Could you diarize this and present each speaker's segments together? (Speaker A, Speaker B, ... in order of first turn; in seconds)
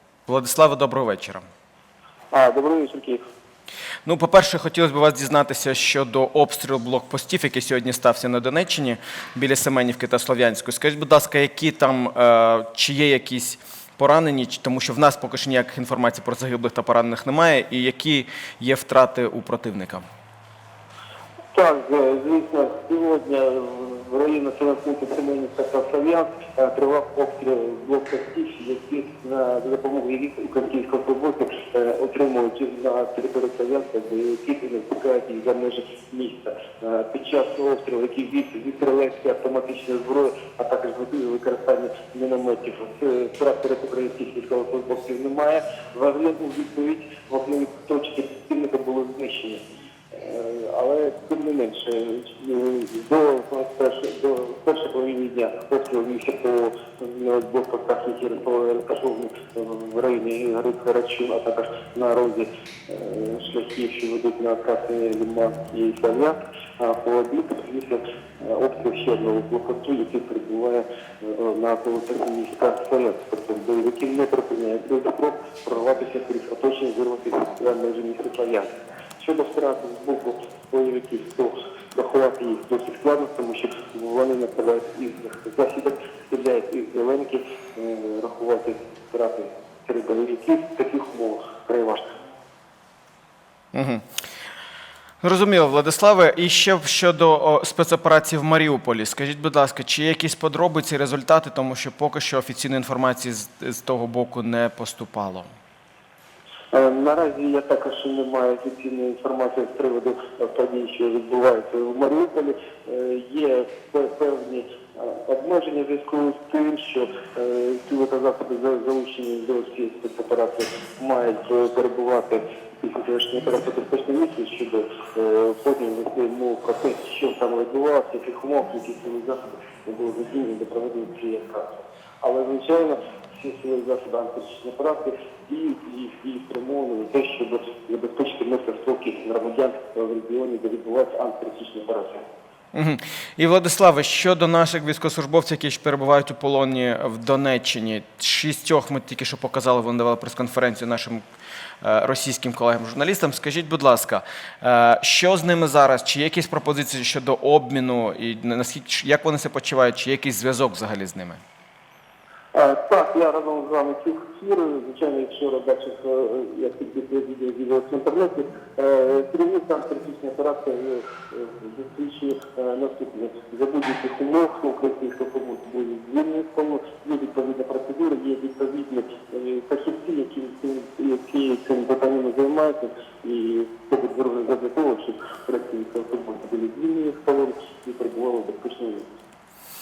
Speaker A: 0.3-1.4, 4.0-20.1, 93.7-94.0, 95.2-105.5, 142.7-151.2, 151.8-161.4
Speaker B: 2.3-3.2, 21.5-49.6, 50.1-92.1, 106.7-142.2, 162.5-189.1